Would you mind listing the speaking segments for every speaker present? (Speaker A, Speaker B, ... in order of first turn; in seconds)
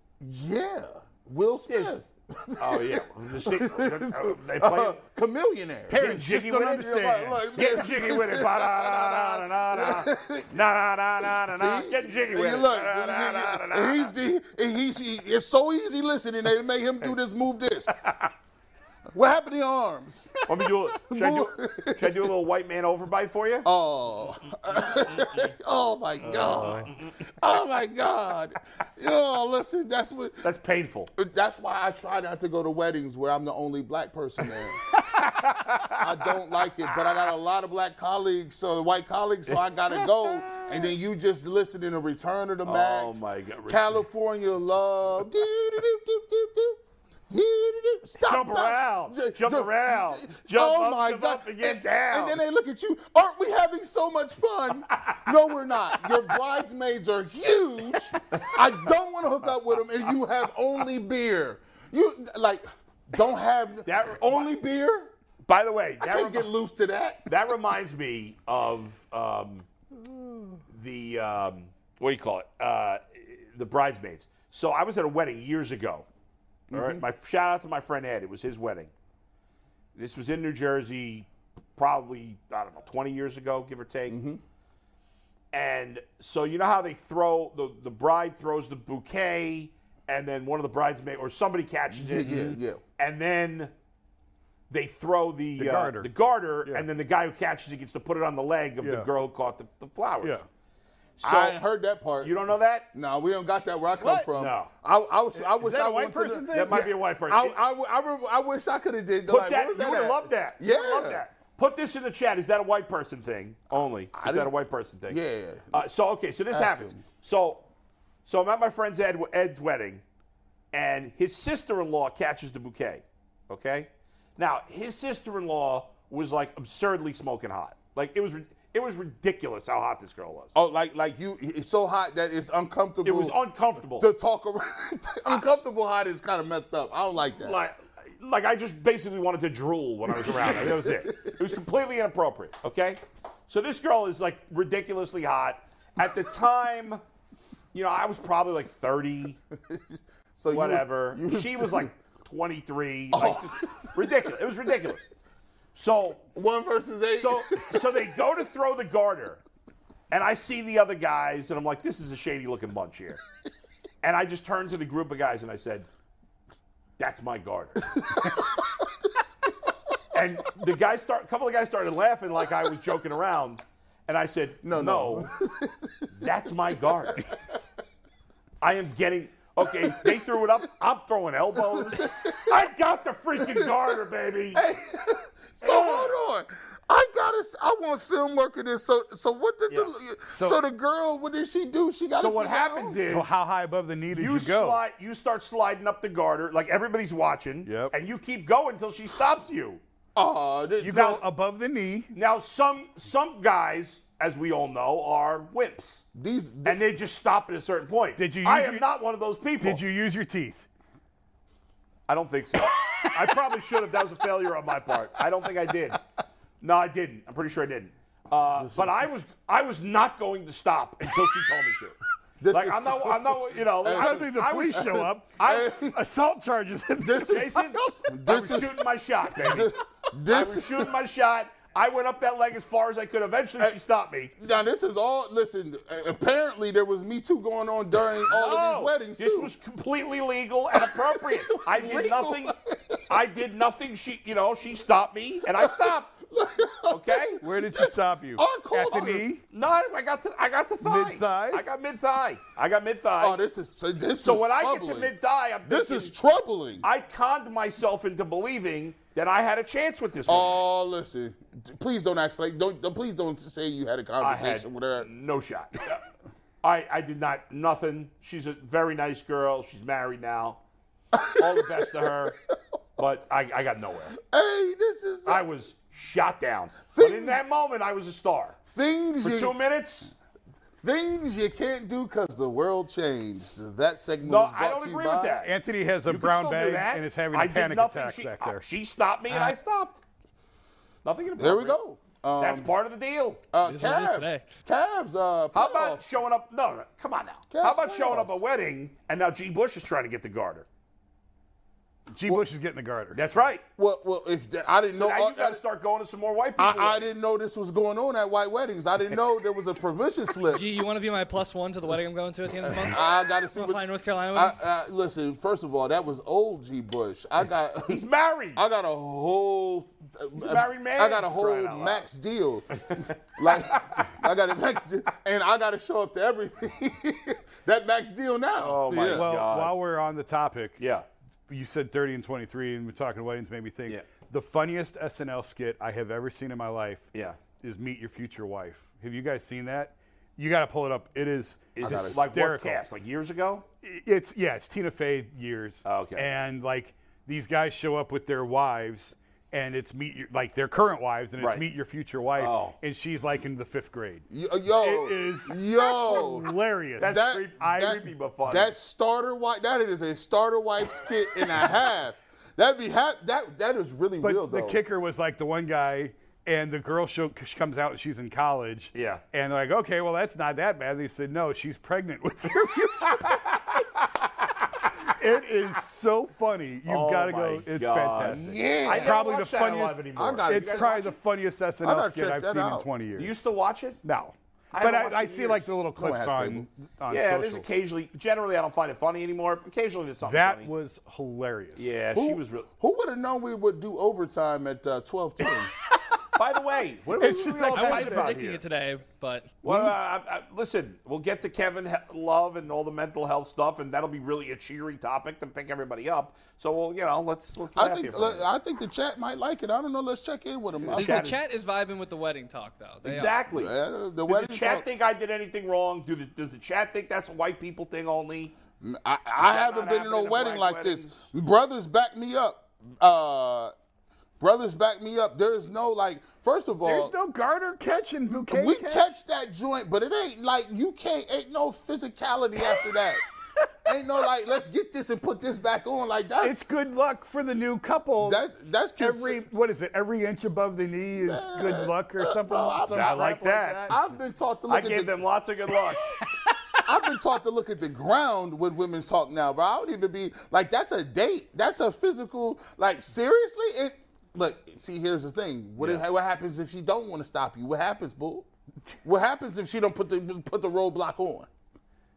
Speaker A: 0.2-10.6, 11.2-17.9, 19.1-22.3, 23.6-30.5, 31.2-34.8, 36.0-43.1, 43.7-65.1, 66.0-67.3, 76.7-77.0, 84.1-84.4, 91.9-92.8, 101.2-102.4, 102.9-111.2, 114.1-114.5, 115.1-115.9, 116.5-117.0, 130.5-133.4, 133.9-137.6, 140.1-141.4, 149.7-151.9, 153.1-154.3, 156.3-158.1, 174.6-176.4, 179.6-180.4, 181.6-182.7, 183.4-183.7, 184.5-193.1, 200.2-201.2, 206.2-206.8, 218.6-218.9, 222.4-226.0, 227.0-230.9, 234.4-239.5, 240.7-243.2, 245.5-249.3, 253.2-255.1, 255.7-256.9, 260.3-265.1, 271.1-272.3, 274.2-275.5, 276.9-277.4, 278.7-279.6, 280.8-285.4, 291.4-292.7, 293.5-296.0, 297.5-298.4, 303.8-305.6, 306.6-310.7, 312.7-313.8, 314.3-318.0, 318.6-329.3, 341.8-342.3, 354.3-364.8, 378.2-379.2, 380.2-380.9, 381.8-382.9, 386.0-386.7, 392.1-395.7, 407.8-411.2, 413.5-414.9, 418.8-423.7, 424.4-427.1, 428.3-433.2, 433.9-436.6, 438.2-439.5, 441.2-443.3, 443.9-445.2, 446.9-458.5, 459.0-461.5
Speaker B: 1.7-2.0, 2.6-5.0, 6.0-6.9, 7.5-14.1, 18.0-18.3, 20.5-23.7, 24.8-25.5, 26.2-27.2, 30.4-31.1, 34.9-36.1, 39.5-40.9, 42.6-44.0, 48.2-52.4, 58.1-58.6, 63.9-64.5, 65.5-66.5, 67.3-69.7, 70.7-76.1, 76.7-78.9, 80.0-84.2, 85.5-93.7, 94.7-100.4, 101.2-101.6, 102.2-102.9, 104.3-104.7, 106.5-107.6, 109.3-115.2, 115.7-117.7, 118.3-120.0, 120.7-130.5, 133.0-134.1, 137.4-147.0, 147.7-149.4, 150.5-155.0, 155.8-156.3, 157.2-159.4, 160.1-163.2, 164.0-165.9, 167.0-168.0, 170.1-175.3, 176.1-177.3, 178.6-184.6, 185.6-186.2, 192.2-193.4, 194.1-199.8, 202.2-206.0, 206.7-209.8, 212.1-216.0, 216.6-222.0, 222.5-225.8, 227.2-229.7, 230.3-234.3, 238.3-242.6, 243.1-246.1, 246.9-247.4, 248.9-253.4, 254.2-256.1, 256.8-260.6, 264.2-266.0, 266.6-270.6, 271.3-272.4, 273.0-274.2, 275.3-278.6, 279.2-280.1, 284.2-285.5, 286.1-290.0, 291.1-291.8, 292.4-293.4, 295.5-300.7, 303.1-303.6, 304.9-307.2, 317.9-318.6, 320.4-322.1, 322.8-324.1, 328.6-329.7, 330.8-331.1, 337.1-337.4, 341.8-343.7, 345.9-346.3, 351.4-351.6, 352.4-352.8, 357.0-358.7, 368.9-369.2, 373.2-374.7, 376.9-381.2, 383.2-384.0, 384.7-385.8, 387.1-390.7, 391.8-392.7, 396.3-398.6, 399.6-408.5, 410.8-411.4, 413.0-413.7, 414.3-418.5, 419.4-421.3, 442.9-443.9, 444.7-446.1, 455.8-456.0
Speaker C: 5.9-7.5, 95.6-96.1, 98.8-99.1, 105.4-106.9, 190.3-190.6, 193.1-194.8, 197.7-197.9, 200.8-202.1, 208.2-208.8, 209.6-210.7, 212.7-213.4, 223.9-227.8, 247.4-249.4, 250.8-251.7, 285.4-288.6, 302.1-303.2, 328.9-330.8, 331.5-342.8, 343.8-354.3, 354.8-358.1, 364.2-373.7, 375.1-383.4, 384.0-387.6, 390.2-391.9, 397.2-398.4, 426.8-429.1, 436.4-438.4, 439.0-444.0
Speaker D: 293.6-294.5, 310.5-314.6, 397.2-399.5, 411.0-413.4